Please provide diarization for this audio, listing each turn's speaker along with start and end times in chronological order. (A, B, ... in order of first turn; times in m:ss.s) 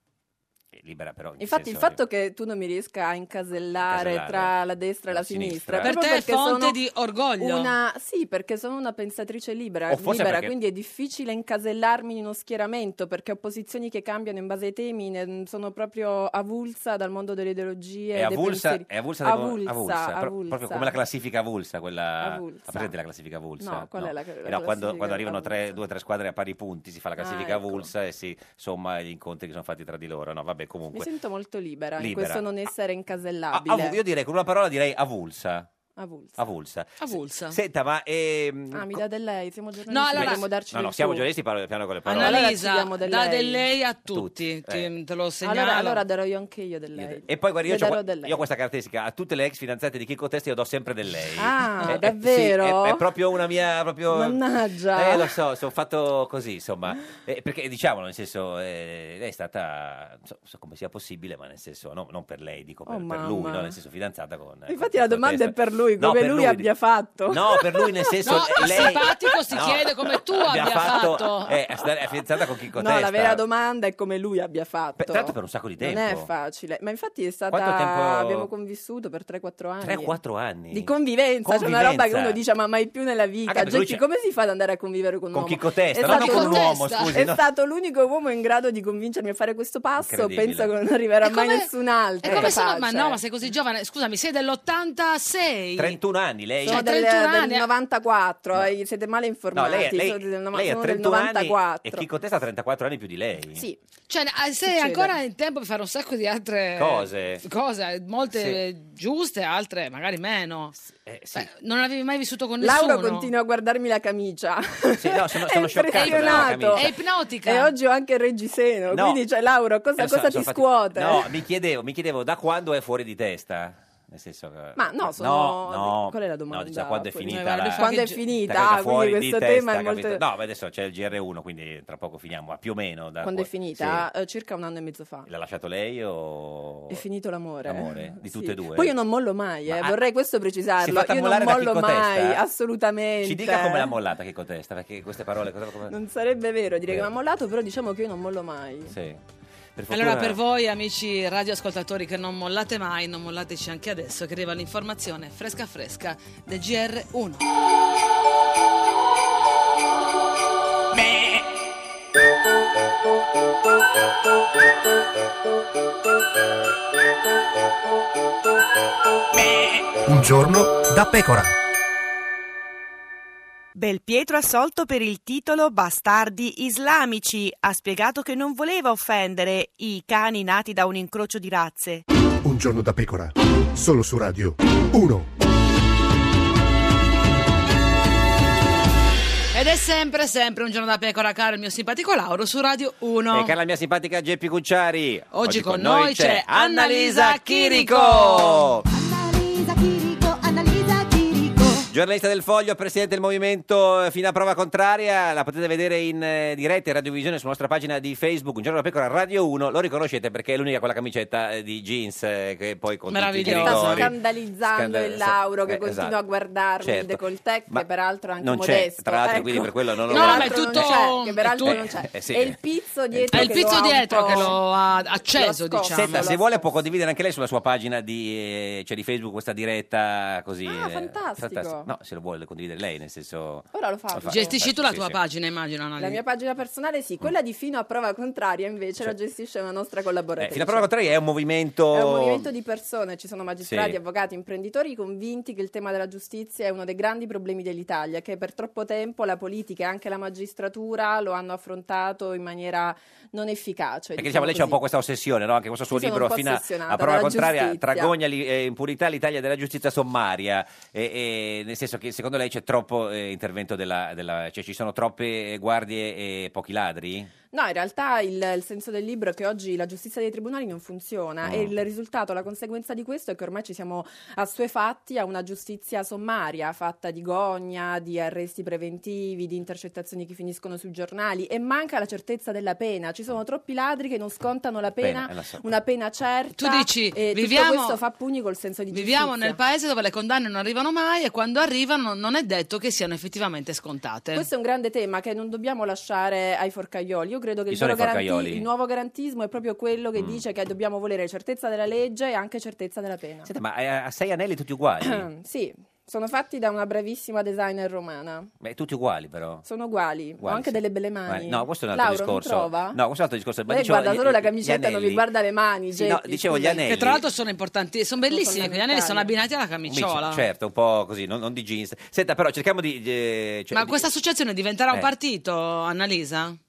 0:00.7-0:02.0 A
0:01.4-0:06.8 B
0:03.8-0:04.6 A
0:05.1-0:05.9 A
0:05.8-0:07.7 C
0:07.4-0:21.0 B
0:09.9-0:10.5 A
0:18.2-0:31.1 A
0:22.2-0:23.0 B
0:23.6-0:25.8 B
0:27.2-0:27.9 B
0:30.9-0:34.0 B
0:32.0-0:32.5 A
0:33.5-0:35.7 A
0:36.0-0:36.4 B
0:36.4-0:39.0 A
0:37.0-0:37.6 C
0:38.7-0:41.3 B
0:39.9-0:40.4 C
0:40.2-0:42.5 A
0:42.1-0:46.0 C
0:42.1-0:43.6 B
0:44.1-0:44.9 A
0:45.4-0:48.4 B
0:47.0-0:54.4 A
0:51.4-0:53.1 B
0:54.0-0:55.4 B
0:55.0-1:06.7 A
1:02.9-1:03.8 B
1:04.7-1:09.2 B
1:07.3-1:13.4 A
1:08.2-1:11.6 C
1:12.7-1:20.2 B
1:15.0-1:16.3 A
1:17.5-1:18.5 A
1:19.8-1:22.4 A
1:20.7-1:33.2 B
1:23.5-1:24.0 A
1:25.3-1:27.4 A
1:26.0-1:27.1 C
1:30.0-1:30.7 A
1:31.2-1:31.7 C
1:32.2-1:36.0 C
1:32.2-1:32.6 A
1:35.8-1:36.9 A
1:36.6-1:42.1 B
1:36.7-1:37.7 C
1:39.5-1:43.6 A
1:44.1-1:50.8 C
1:44.7-1:45.2 B
1:46.8-1:47.4 A
1:48.3-1:48.6 A
1:50.9-1:51.5 A
1:51.3-1:53.3 C
1:52.6-2:01.3 B
1:55.0-1:56.8 A
1:55.9-1:57.7 C
1:58.9-1:59.2 A
2:00.0-2:14.1 A
2:04.8-2:10.2 B
2:07.3-2:08.2 C
2:13.2-2:15.3 B
2:15.3-2:17.0 A
2:16.9-2:24.0 B
2:17.6-2:18.9 A
2:19.7-2:20.0 A
2:20.8-2:22.4 A
2:23.2-2:25.9 A
2:25.9-2:29.0 B
2:28.9-2:29.2 A
2:29.8-2:30.4 A
2:29.9-2:37.5 C
2:50.3-2:51.4 D
2:53.8-3:02.0 E
3:02.5-3:03.3 D
3:03.8-3:05.2 D
3:09.5-3:13.5 C
3:13.3-3:18.9 A
3:15.3-3:18.6 C
3:18.9-3:21.9 F
3:21.9-3:36.2 A
3:33.1-3:34.1 C
3:33.4-3:44.6 B
3:36.8-3:37.9 A
3:38.4-3:41.0 A
3:40.1-3:41.8 C
3:41.6-3:42.6 A
3:43.1-3:44.6 A
3:43.3-3:46.3 C
3:45.3-3:46.7 B
3:45.9-3:55.2 A
3:50.6-3:51.9 B
3:53.7-3:54.6 B
3:54.3-3:56.2 C
3:56.0-4:00.9 B
4:00.4-4:02.5 A
4:01.9-4:14.8 B
4:03.6-4:04.0 A
4:14.2-4:27.3 A
4:15.9-4:18.2 B
4:27.5-4:49.6 B
4:31.4-4:31.7 A
4:45.0-4:45.7 A
4:46.6-4:48.0 C
4:48.9-4:54.5 C
4:54.3-5:03.5 B
4:57.7-4:58.7 A
5:03.5-5:05.3 A
5:05.0-5:08.5 B
5:08.6-5:09.7 A
5:09.6-5:13.0 B
5:10.4-5:15.3 A
5:13.7-5:17.0 B
5:16.0-5:17.2 A
5:16.8-5:20.4 C
5:18.3-5:19.3 B
5:19.9-5:24.1 A
5:23.7-5:26.6 C